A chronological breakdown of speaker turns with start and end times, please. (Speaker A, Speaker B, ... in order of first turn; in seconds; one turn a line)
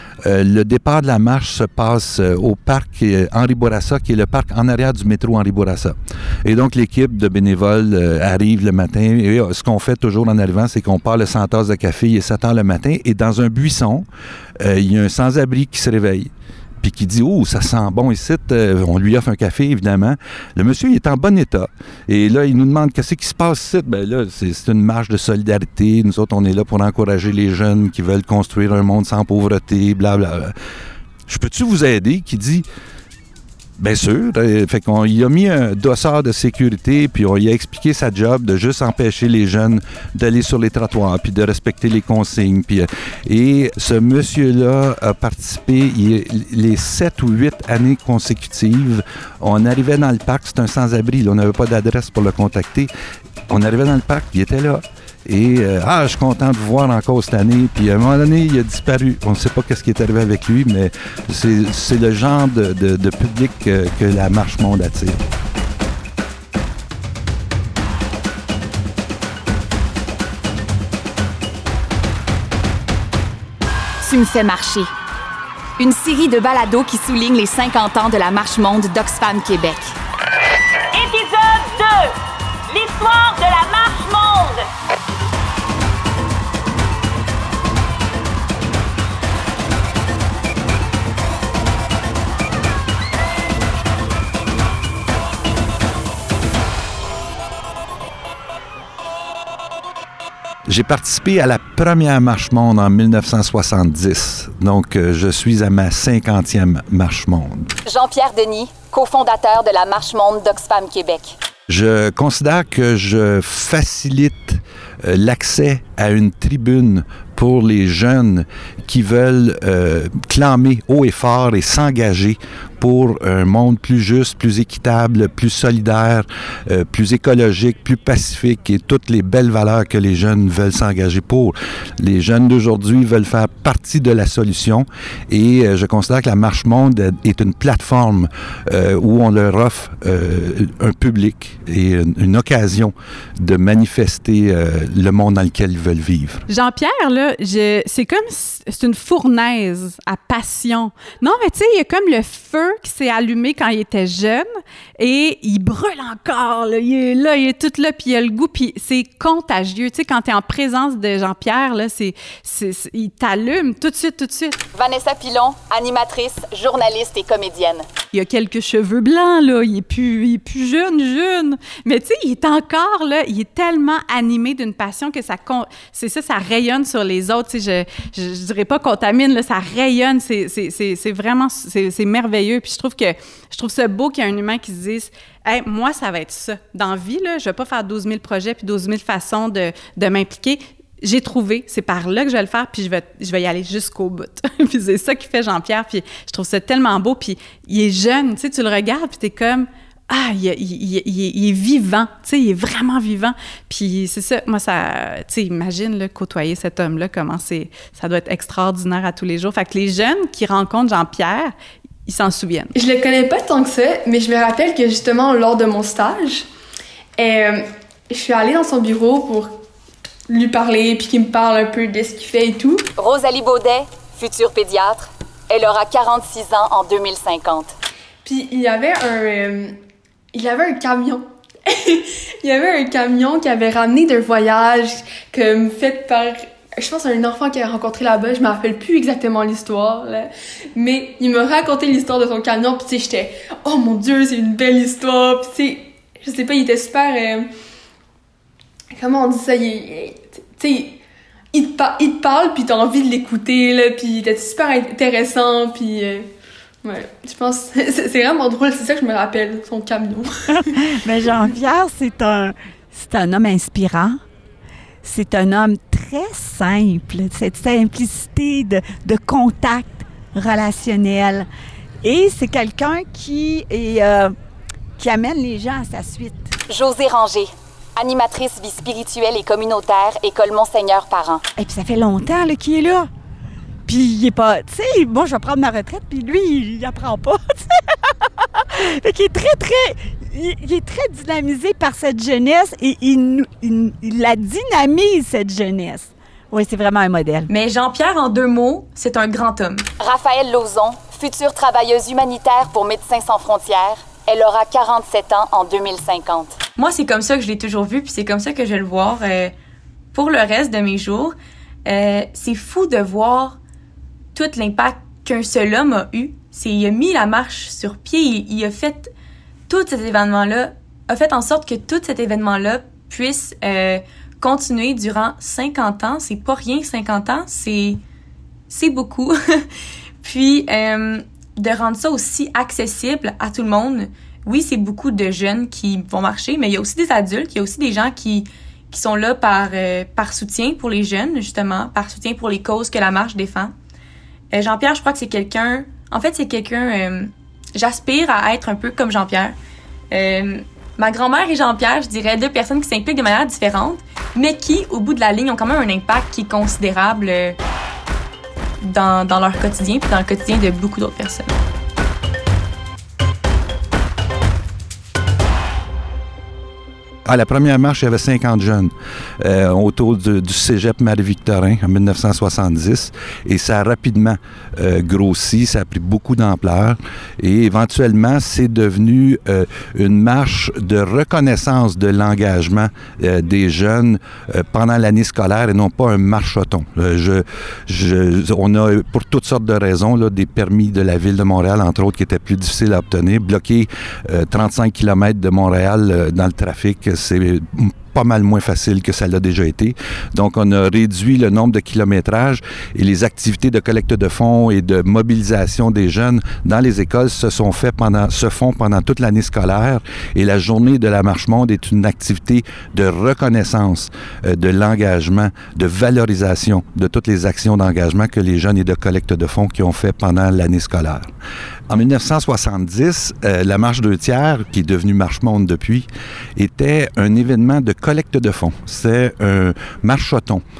Speaker A: 0.2-14.1
Speaker A: 14.6-16.3
Speaker A: 16.8-30.5
Speaker A: 31.3-32.6
Speaker A: 33.8-52.9
Speaker A: 53.5-65.2
Speaker B: 74.0-74.9
Speaker B: 75.8-79.9
Speaker A: 100.7-107.7
Speaker B: 107.9-111.3
Speaker A: 111.7-146.4
Speaker C: 146.5-154.5
Speaker C: 155.0-164.6
Speaker B: 164.7-167.8
Speaker C: 168.1-211.5
Speaker C: 212.1-212.7
Speaker D: 212.7-216.5
Speaker D: 217.2-219.6
Speaker D: 220.3-222.8
Speaker B: 223.0-227.7
Speaker D: 228.2-229.7
Speaker D: 230.3-247.5
Speaker D: 248.9-251.0
Speaker D: 251.5-256.3
Speaker D: 256.8-260.3
Speaker E: 260.8-264.2
Speaker E: 265.0-271.5
Speaker E: 272.0-274.3
Speaker E: 275.0-276.5
Speaker B: 276.7-281.4
Speaker E: 281.6-283.1
Speaker E: 283.9-287.9
Speaker E: 288.6-297.5
Speaker F: 297.5-299.9
Speaker B: 300.0-306.6
Speaker F: 306.8-309.5
Speaker F: 310.1-313.6
Speaker F: 314.3-319.1
Speaker F: 319.7-328.0
Speaker F: 328.7-329.7
Speaker F: 330.2-343.7
Speaker F: 344.5-349.6
Speaker F: 350.1-357.6
Speaker F: 358.8-361.5
Speaker A: 367.2-421.3
Speaker A: 421.9-430.6